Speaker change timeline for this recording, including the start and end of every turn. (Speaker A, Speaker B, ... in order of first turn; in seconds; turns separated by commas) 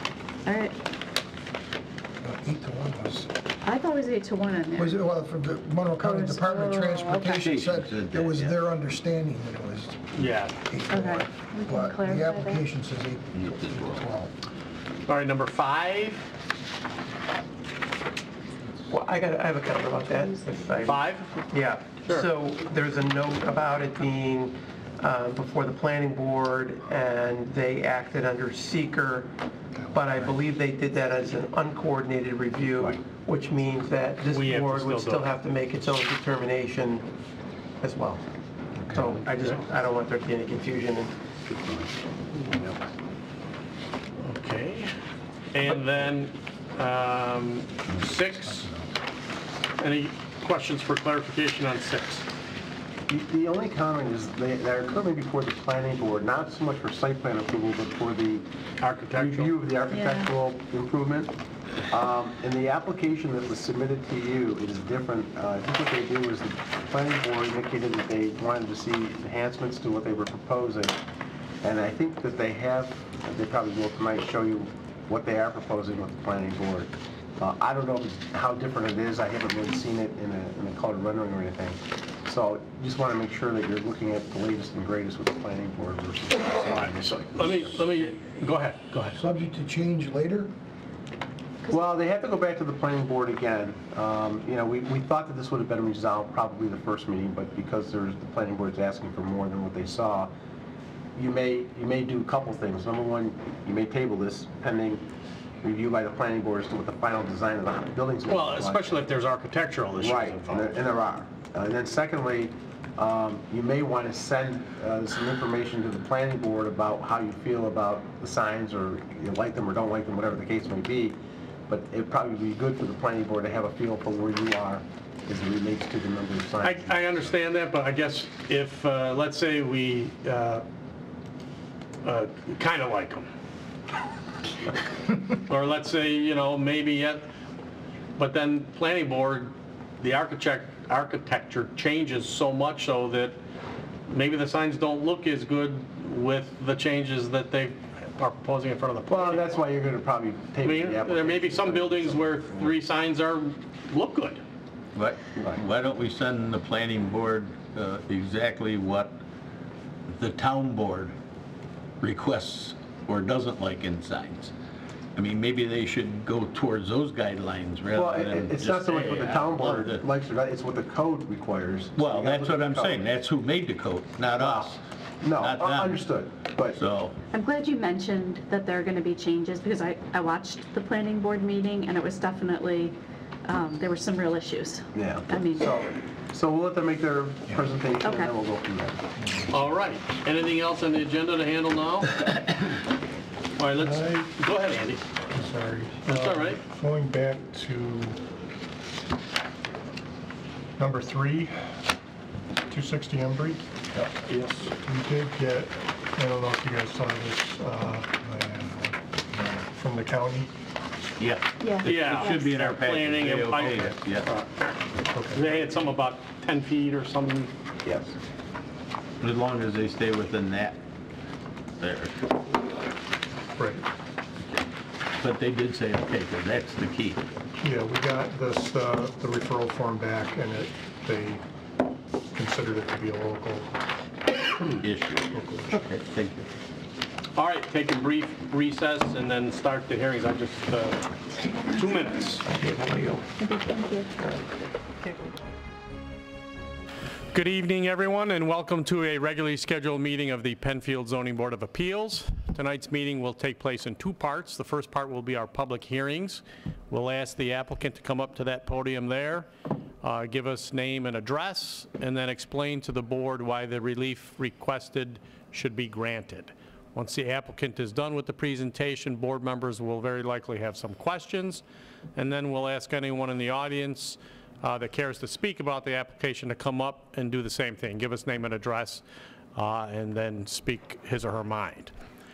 Speaker A: 0.4-0.8, Speaker B: 2.2-3.3, Speaker A: 3.6-5.0, Speaker B: 4.8-10.1, Speaker A: 6.0-7.6, Speaker C: 7.4-8.6, Speaker D: 10.1-10.6, Speaker B: 10.7-14.3, Speaker A: 10.9-12.6, Speaker C: 13.3-14.1, Speaker D: 15.1-16.3, Speaker E: 18.9-29.3, Speaker A: 20.1-20.8, Speaker D: 20.8-21.3, Speaker D: 22.0-22.3, Speaker E: 29.9-37.1, Speaker D: 34.3-35.3, Speaker E: 37.8-38.2, Speaker E: 38.9-41.1, Speaker D: 39.0-39.6, Speaker C: 41.5-41.9, Speaker D: 44.2-44.9, Speaker D: 45.5-48.7, Speaker D: 49.8-52.2, Speaker F: 53.1-58.5, Speaker D: 58.8-59.5, Speaker F: 59.1-61.3, Speaker A: 59.9-60.3, Speaker F: 61.9-71.0, Speaker F: 71.6-87.8, Speaker D: 86.6-89.2, Speaker B: 89.1-90.5, Speaker F: 91.7-100.3, Speaker F: 101.2-105.0, Speaker F: 105.6-109.0, Speaker D: 108.3-110.8, Speaker F: 110.0-121.2, Speaker F: 121.7-127.3, Speaker D: 126.6-130.6, Speaker D: 132.0-133.3, Speaker D: 135.5-137.2, Speaker D: 138.2-143.4, Speaker D: 144.1-149.5, Speaker F: 149.1-152.8, Speaker D: 150.6-154.4, Speaker C: 154.9-159.2, Speaker F: 155.3-155.6, Speaker C: 160.1-161.1, Speaker C: 162.0-164.5, Speaker C: 165.1-170.1, Speaker F: 167.9-173.1, Speaker C: 171.9-174.8, Speaker F: 174.3-176.8, Speaker C: 175.3-176.2, Speaker C: 176.7-177.1, Speaker A: 177.3-185.8, Speaker F: 184.9-189.0, Speaker A: 188.0-188.3, Speaker D: 189.5-192.5, Speaker D: 193.6-195.0, Speaker G: 193.8-194.0, Speaker G: 195.3-198.2, Speaker D: 196.0-196.6, Speaker G: 200.8-201.5, Speaker G: 202.7-203.6, Speaker D: 204.2-204.7, Speaker G: 204.8-208.9, Speaker G: 209.7-210.5, Speaker C: 211.2-214.3, Speaker A: 211.6-212.5, Speaker D: 211.8-214.6, Speaker G: 215.1-215.4, Speaker D: 215.3-217.5, Speaker F: 217.8-218.2, Speaker C: 219.2-220.8, Speaker C: 221.8-222.2, Speaker G: 223.6-223.8, Speaker C: 224.4-224.7, Speaker C: 225.2-227.2, Speaker G: 227.6-231.4, Speaker G: 232.3-233.7, Speaker C: 234.7-236.5, Speaker G: 235.3-235.8, Speaker D: 237.3-242.5, Speaker E: 242.4-243.2, Speaker A: 243.4-244.1, Speaker D: 247.3-259.5, Speaker D: 260.0-271.6, Speaker D: 272.1-279.0, Speaker D: 279.5-281.9